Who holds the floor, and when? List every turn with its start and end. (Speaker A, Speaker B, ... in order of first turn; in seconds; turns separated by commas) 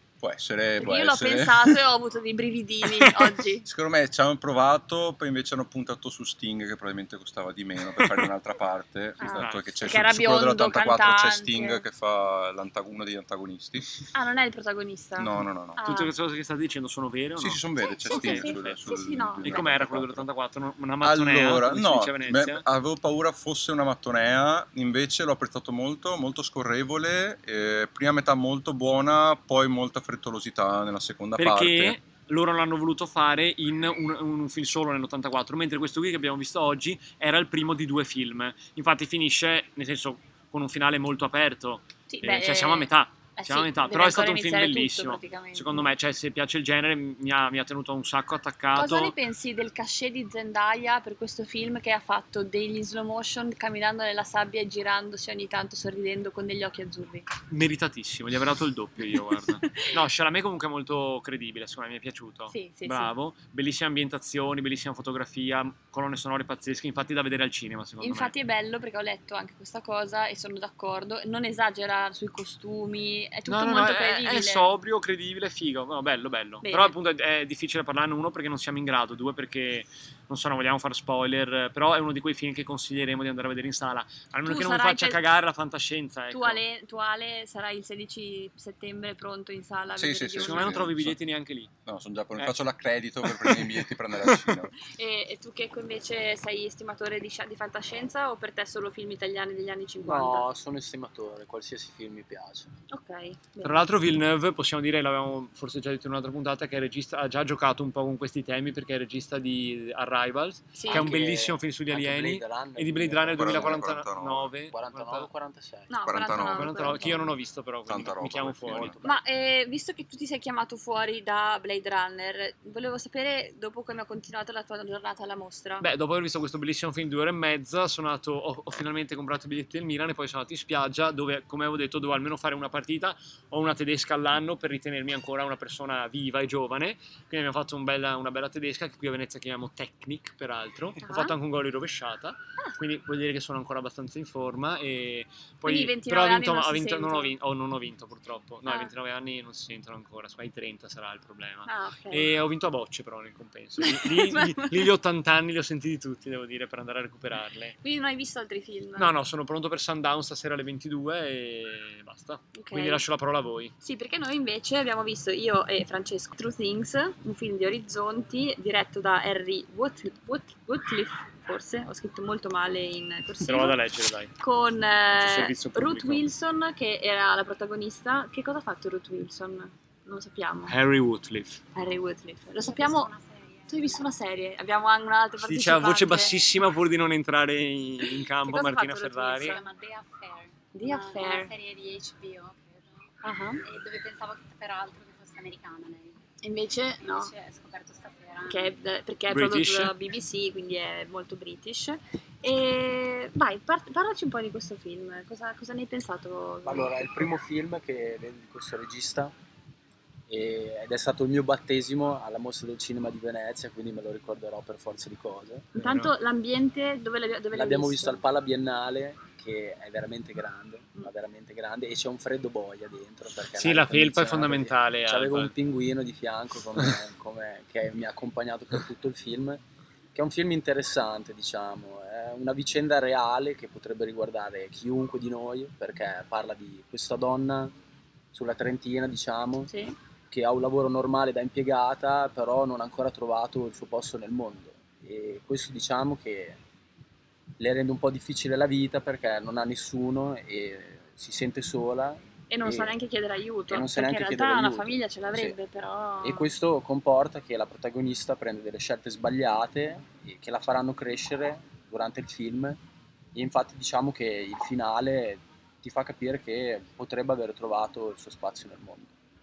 Speaker A: 0.2-1.8, Speaker B: 0.8-3.7, Speaker C: 2.8-3.1, Speaker A: 3.6-14.1, Speaker B: 9.2-11.8, Speaker C: 9.2-9.8, Speaker B: 14.1-16.1, Speaker A: 15.2-15.8, Speaker C: 15.8-18.9, Speaker A: 17.4-20.2, Speaker B: 17.8-19.9, Speaker C: 19.4-22.6, Speaker A: 21.0-32.0, Speaker C: 31.4-49.1, Speaker B: 42.1-45.9, Speaker B: 48.7-57.3, Speaker C: 57.5-68.3, Speaker B: 62.5-63.1, Speaker B: 68.0-74.8, Speaker C: 73.5-86.6, Speaker B: 76.6-76.9, Speaker B: 84.4-85.2, Speaker B: 86.3-90.8, Speaker A: 90.0-91.2, Speaker C: 90.3-91.7, Speaker A: 91.8-94.7, Speaker C: 92.4-92.7, Speaker C: 93.3-93.8, Speaker B: 94.8-100.5, Speaker D: 100.0-102.7, Speaker B: 102.9-103.9, Speaker C: 103.6-115.3, Speaker B: 110.8-111.2, Speaker D: 110.9-113.9, Speaker A: 113.3-114.5, Speaker D: 114.7-115.9, Speaker B: 115.9-117.3, Speaker A: 116.0-117.1, Speaker C: 116.3-119.1, Speaker A: 117.9-119.0, Speaker D: 118.7-119.1, Speaker B: 119.0-125.9, Speaker C: 125.8-157.8, Speaker B: 141.0-141.3, Speaker B: 145.7-147.3, Speaker B: 148.7-148.9, Speaker B: 151.7-152.3, Speaker B: 153.8-154.9, Speaker B: 157.8-159.1, Speaker C: 159.0-163.7, Speaker B: 162.6-163.0, Speaker B: 163.8-173.8, Speaker C: 173.4-174.4, Speaker B: 174.4-180.7, Speaker C: 175.1-176.3, Speaker C: 180.7-181.6, Speaker B: 181.7-183.1, Speaker E: 182.6-184.1, Speaker B: 183.7-186.3, Speaker C: 185.4-189.6, Speaker B: 188.4-189.6, Speaker E: 189.4-193.1, Speaker B: 190.7-191.5, Speaker B: 193.2-193.6, Speaker E: 193.6-196.2, Speaker B: 196.4-197.3, Speaker E: 197.0-198.7, Speaker B: 198.4-207.0, Speaker C: 199.3-199.9, Speaker D: 206.7-209.3, Speaker D: 210.3-215.7, Speaker C: 215.7-216.1, Speaker B: 215.8-218.2, Speaker D: 217.5-229.6, Speaker C: 223.5-225.5, Speaker D: 230.2-237.7, Speaker D: 238.3-239.7, Speaker B: 239.7-239.9, Speaker D: 240.3-246.6, Speaker D: 247.6-252.9, Speaker B: 252.5-256.5, Speaker D: 253.7-255.6, Speaker D: 256.2-262.8, Speaker D: 263.3-269.1